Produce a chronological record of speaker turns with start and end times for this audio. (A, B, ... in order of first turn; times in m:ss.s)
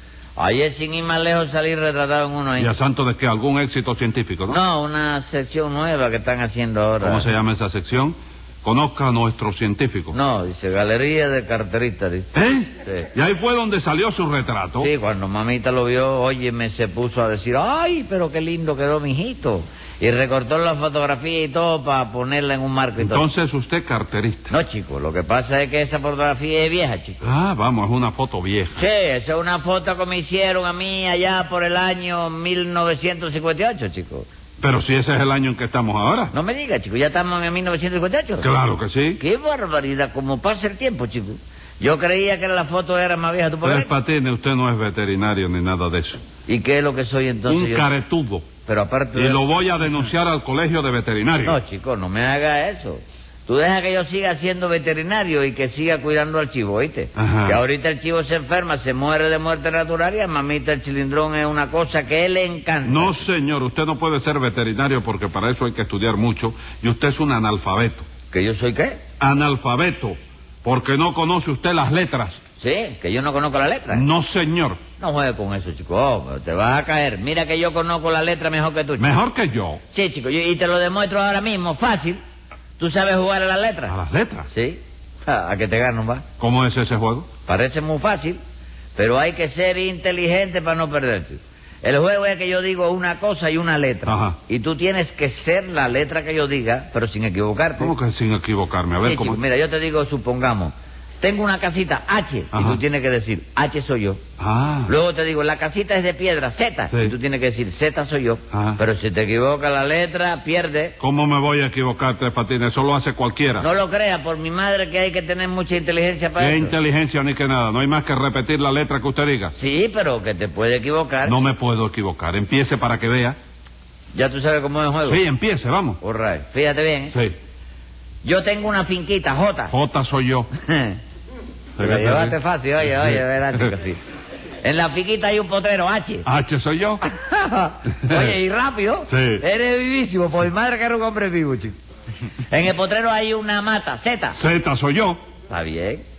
0:00.4-0:02.7 A
0:02.6-0:04.6 B
0:04.5-0:07.3 A
0:07.0-0:10.2 B
0:10.1-0:12.3 A
0:12.4-0:14.9 B
0:12.8-0:13.1 A
0:14.8-0:23.3 A
0:23.0-0:24.5 B
0:24.5-0:27.3 A
0:27.2-0:28.8 B
0:28.8-0:34.3 A
0:34.6-0:36.3 B
0:36.3-0:38.5 A
0:38.4-0:39.2 B
0:39.2-0:43.9 A
0:43.6-0:46.2 B
0:46.5-0:47.9 A
0:47.5-0:48.5 B
0:48.6-0:49.4 A
0:49.1-0:51.6 B
0:51.4-1:03.2 A
0:57.2-0:57.6 B
1:02.8-1:08.1 B
1:08.3-1:09.0 A
1:09.2-1:12.4 B
1:12.6-1:14.1 A
1:13.9-1:14.8 B
1:15.0-1:19.2 A
1:19.0-1:19.8 B
1:19.9-1:22.2 A
1:22.8-1:24.0 A
1:23.9-1:24.5 B
1:24.5-1:26.2 A
1:26.4-1:27.3 B
1:27.4-1:28.4 A
1:29.0-1:37.9 A
1:34.1-1:34.4 B
1:37.8-1:39.4 B
1:39.0-1:44.2 A
1:42.5-1:42.8 B
1:44.4-1:44.9 B
1:44.9-1:51.0 A
1:48.5-1:48.8 B
1:51.0-1:53.7 B
1:53.6-1:56.7 A
1:56.4-1:59.5 B
1:59.6-2:01.4 A
2:01.2-2:03.4 B
2:04.1-2:05.2 A
2:05.0-2:06.0 B
2:06.0-2:07.1 A
2:08.2-2:09.7 A
2:09.7-2:10.5 B
2:10.6-2:11.0 A
2:11.8-2:13.7 B
2:11.8-2:14.0 A
2:14.6-2:16.2 A
2:16.3-2:17.0 B
2:17.0-2:21.8 A
2:18.1-2:18.3 B
2:19.1-2:19.4 B
2:22.5-2:24.4 A
2:24.3-2:25.2 B
2:25.5-2:26.0 A